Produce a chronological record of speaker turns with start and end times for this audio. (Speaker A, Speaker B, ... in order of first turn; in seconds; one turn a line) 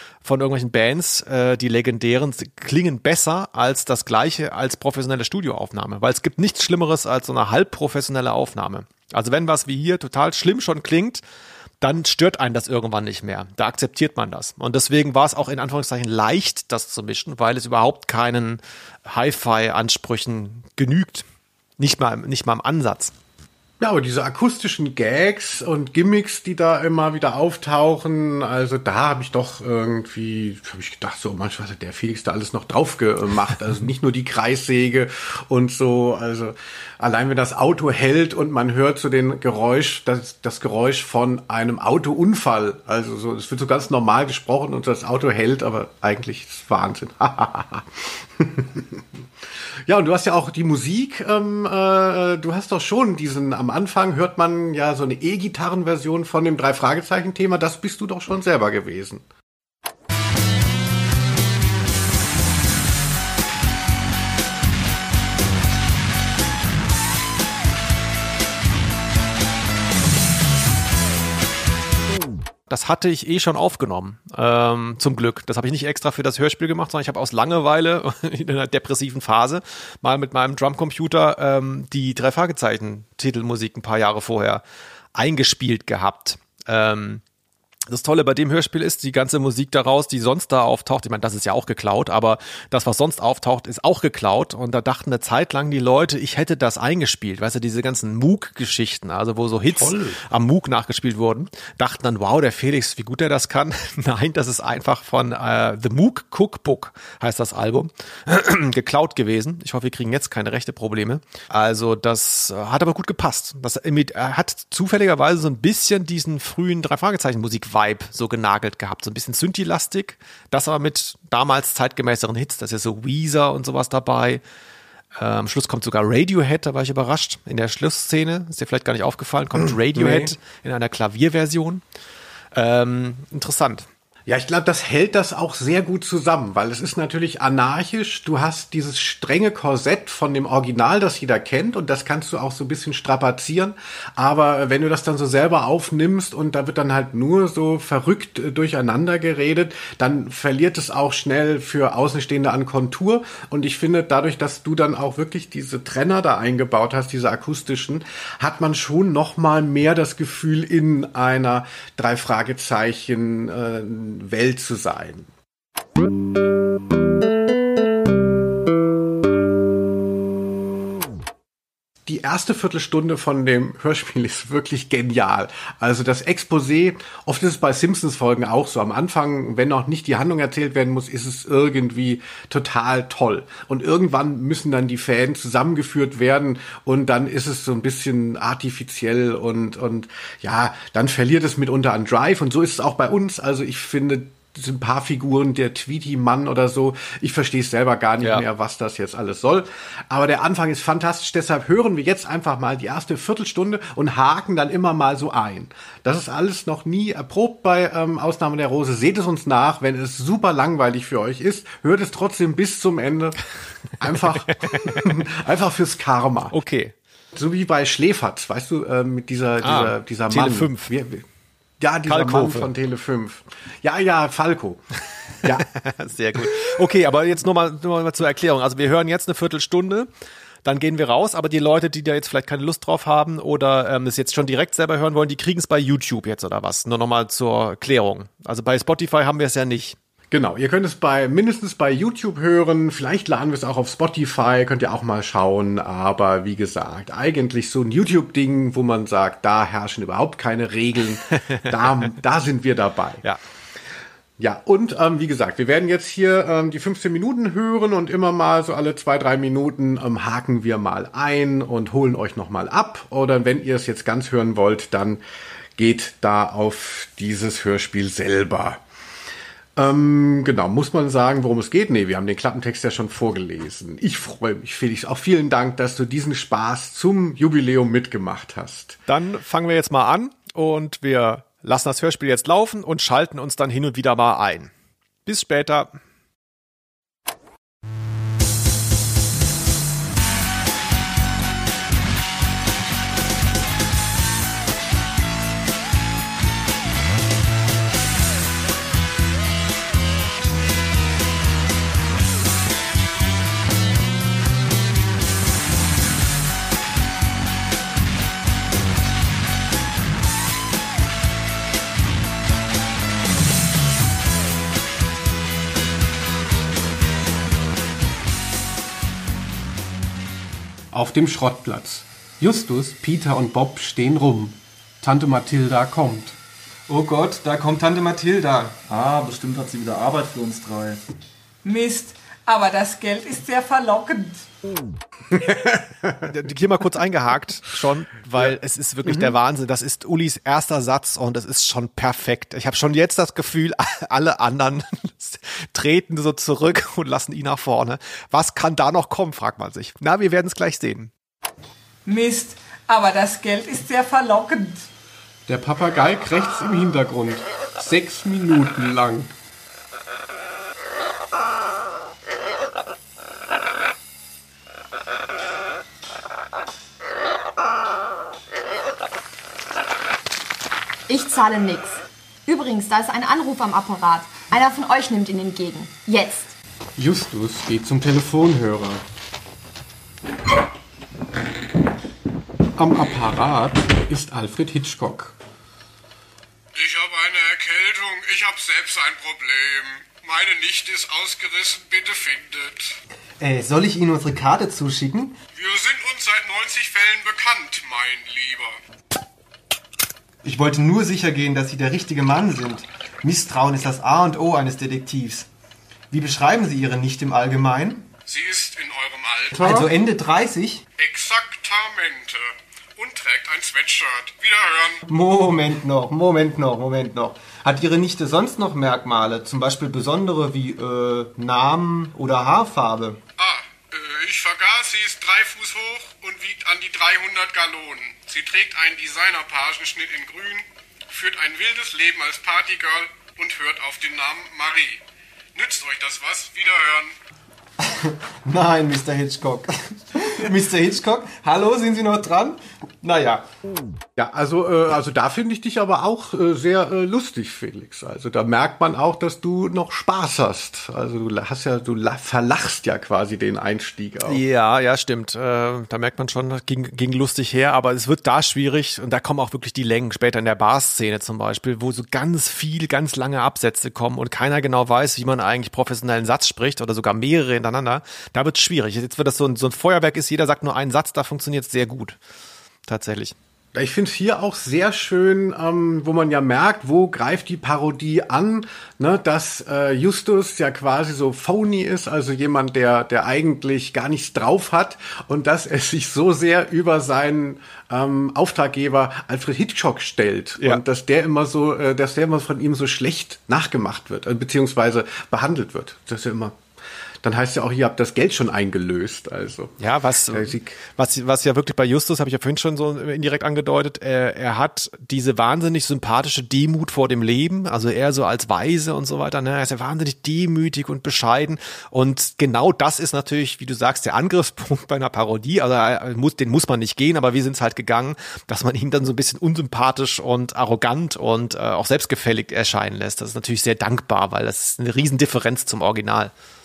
Speaker A: 0.2-11.2
Speaker A: 11.8-21.2
Speaker A: 21.8-23.1
Speaker B: 23.8-49.0
Speaker B: 49.9-59.2
Speaker A: 72.7-84.6
Speaker A: 85.1-87.2
Speaker A: 87.9-124.4
Speaker B: 99.7-100.2
Speaker A: 125.2-131.8
Speaker B: 129.6-130.3
Speaker A: 132.5-133.9
Speaker B: 134.3-165.3
Speaker B: 172.1-213.4
Speaker B: 214.0-216.6
Speaker A: 214.7-215.1
Speaker A: 216.5-216.9
Speaker B: 217.3-221.2
Speaker A: 219.6-220.9
Speaker B: 221.8-224.8
Speaker A: 222.1-222.7
Speaker B: 225.4-225.7
Speaker A: 225.7-230.1
Speaker A: 230.6-240.0
Speaker B: 240.3-253.2
Speaker B: 254.4-265.2
Speaker B: 265.8-268.8
Speaker B: 269.8-279.0
Speaker A: 279.1-284.7
Speaker A: 285.2-286.0
Speaker C: 320.9-326.4
Speaker D: 326.9-328.8
Speaker E: 328.9-331.0
Speaker F: 331.6-334.4
Speaker B: 335.5-336.1
Speaker A: 336.2-351.1
Speaker B: 339.0-339.3
Speaker F: 352.1-354.9
Speaker C: 355.5-359.3
Speaker G: 371.1-376.5
Speaker C: 377.0-378.9
Speaker C: 382.8-385.3
Speaker H: 386.7-393.0
Speaker D: 393.4-395.4
Speaker H: 395.5-398.8
Speaker D: 400.4-405.5
Speaker D: 406.1-408.1
Speaker H: 408.3-409.9
Speaker D: 409.5-410.8
Speaker H: 411.0-415.0
Speaker D: 415.1-423.2
Speaker H: 423.4-435.0
Speaker H: 435.5-437.1
Speaker D: 437.8-443.4
Speaker B: 444.1-454.4
Speaker A: 454.2-472.2
Speaker A: 472.9-473.3
Speaker B: 473.7-496.6
Speaker B: 497.2-499.8
Speaker A: 499.8-526.3
Speaker B: 500.3-500.8